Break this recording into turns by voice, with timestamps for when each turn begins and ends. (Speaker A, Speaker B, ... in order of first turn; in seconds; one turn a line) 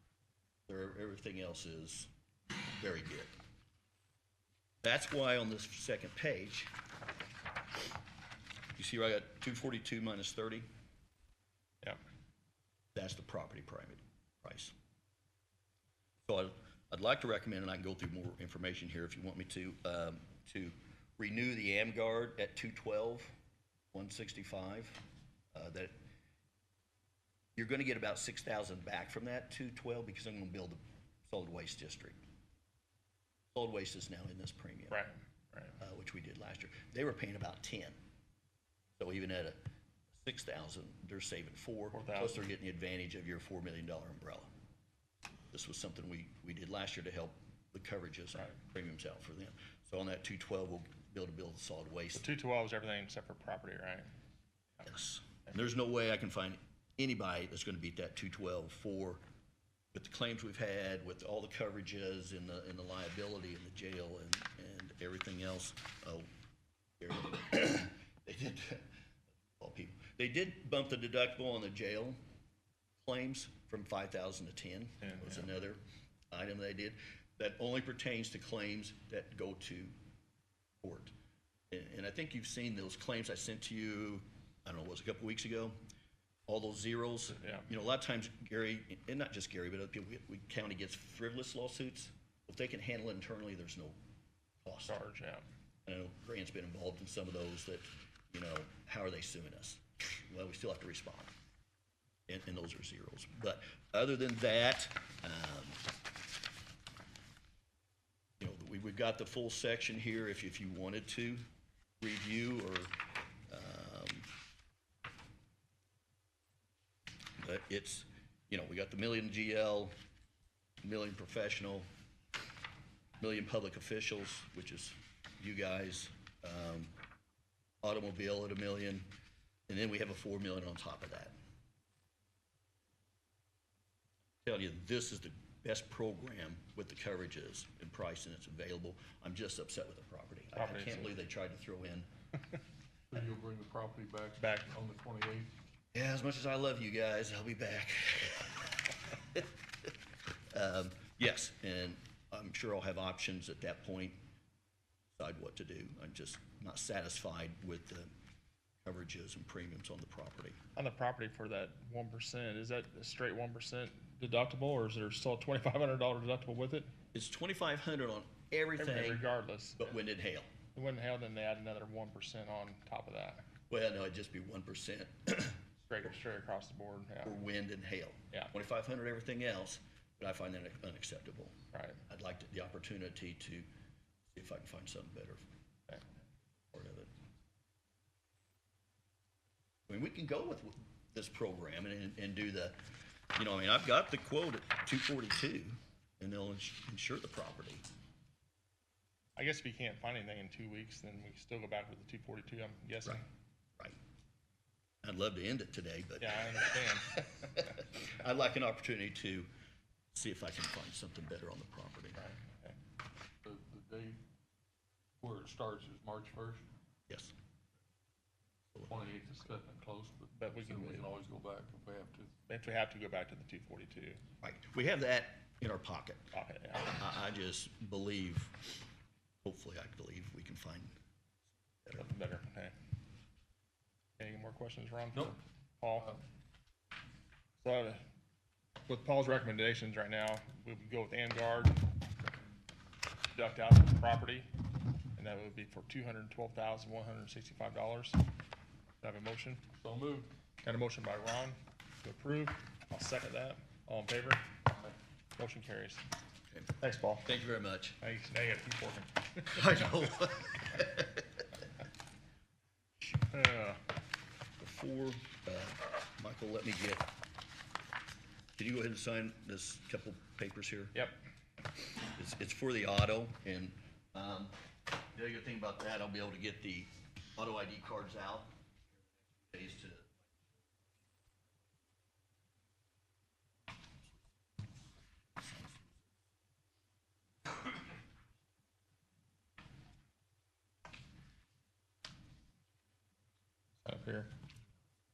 Speaker A: 0.7-2.1
Speaker A: 2.8-3.3
Speaker A: 4.8-6.7
Speaker A: 8.8-10.6
Speaker A: 12.9-14.7
Speaker A: 16.2-23.3
Speaker A: 23.9-25.9
Speaker A: 27.6-32.2
Speaker A: 33.5-35.0
Speaker B: 34.9-35.8
Speaker A: 35.8-38.0
Speaker A: 39.0-39.6
Speaker A: 40.1-44.5
Speaker B: 41.9-42.4
Speaker A: 45.5-52.3
Speaker B: 52.1-54.1
Speaker A: 54.8-59.2
Speaker A: 59.9-66.3
Speaker A: 67.0-68.9
Speaker A: 69.6-72.2
Speaker A: 73.0-75.8
Speaker B: 75.0-75.4
Speaker A: 76.3-79.9
Speaker A: 80.8-81.1
Speaker A: 81.7-85.8
Speaker A: 86.5-94.0
Speaker B: 87.3-87.7
Speaker A: 94.6-95.0
Speaker B: 94.9-95.4
Speaker A: 95.8-101.3
Speaker A: 102.3-105.8
Speaker A: 108.4-111.4
Speaker A: 112.0-114.3
Speaker A: 117.4-119.9
Speaker A: 120.8-121.9
Speaker A: 123.2-126.9
Speaker A: 127.8-129.1
Speaker A: 129.7-131.3
Speaker A: 134.4-142.1
Speaker B: 140.5-141.2
Speaker C: 143.1-145.5
Speaker B: 144.4-144.7
Speaker A: 145.9-149.5
Speaker A: 150.5-154.2
Speaker A: 155.2-158.1
Speaker A: 158.8-160.6
Speaker B: 160.8-166.9
Speaker A: 167.1-170.5
Speaker B: 168.8-169.9
Speaker B: 170.8-173.4
Speaker A: 173.7-175.6
Speaker B: 175.9-177.4
Speaker A: 177.2-183.7
Speaker B: 181.7-182.0
Speaker A: 184.3-185.4
Speaker A: 186.7-187.1
Speaker A: 189.9-192.8
Speaker A: 193.3-197.8
Speaker B: 199.4-203.2
Speaker A: 205.0-209.5
Speaker B: 206.2-207.2
Speaker A: 210.1-212.2
Speaker B: 212.2-212.8
Speaker C: 213.4-214.2
Speaker C: 215.2-216.7
Speaker A: 217.1-217.3
Speaker C: 218.9-222.3
Speaker B: 220.4-221.1
Speaker B: 222.5-224.2
Speaker A: 224.4-226.3
Speaker B: 226.3-227.0
Speaker A: 226.9-228.7
Speaker A: 229.4-230.9
Speaker B: 232.0-232.7
Speaker B: 234.2-236.2
Speaker B: 237.6-238.0
Speaker B: 238.9-241.8
Speaker B: 243.3-244.5
Speaker B: 245.2-248.2
Speaker B: 249.0-249.6
Speaker C: 249.8-250.3
Speaker B: 250.6-254.5
Speaker B: 255.4-256.0
Speaker A: 256.5-258.0
Speaker B: 256.8-257.3
Speaker B: 258.0-260.0
Speaker A: 259.5-261.4
Speaker B: 263.2-263.8
Speaker A: 264.6-267.1
Speaker A: 268.6-271.0
Speaker A: 272.1-274.6
Speaker A: 275.1-278.5
Speaker A: 279.5-280.2
Speaker B: 293.8-294.3